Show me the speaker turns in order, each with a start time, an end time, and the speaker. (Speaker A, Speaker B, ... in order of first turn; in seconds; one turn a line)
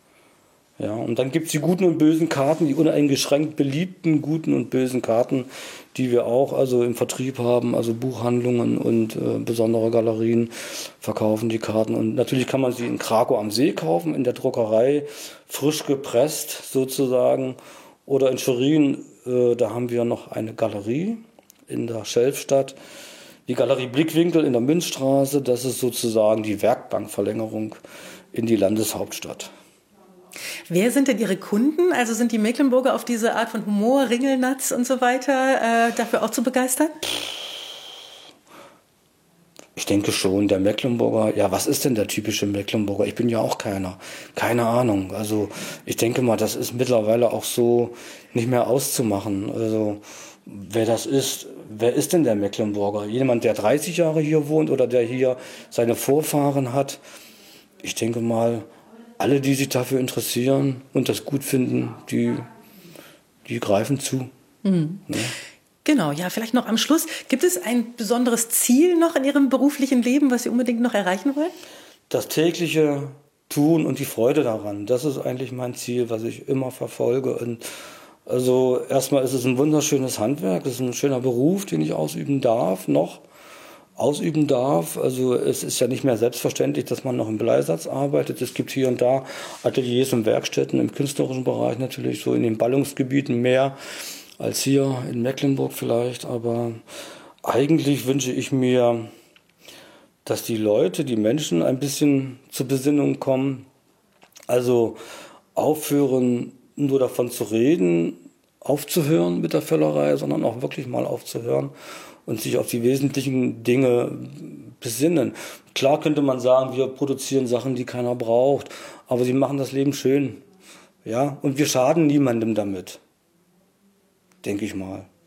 Speaker A: 0.8-22.8
Speaker A: 23.5-27.8
Speaker A: 28.3-29.5
Speaker B: 30.7-37.0
Speaker A: 39.8-57.0
Speaker A: 57.8-58.7
Speaker A: 59.2-62.5
Speaker A: 63.5-64.3
Speaker B: 64.6-65.0
Speaker A: 65.1-65.3
Speaker B: 65.8-71.5
Speaker A: 72.1-77.6
Speaker A: 78.3-83.2
Speaker A: 84.0-93.8
Speaker A: 94.4-96.8
Speaker A: 97.4-99.1
Speaker A: 100.2-103.7
Speaker A: 104.5-105.0
Speaker A: 105.5-111.7
Speaker A: 112.3-120.4
Speaker A: 121.0-123.0
Speaker A: 124.4-125.1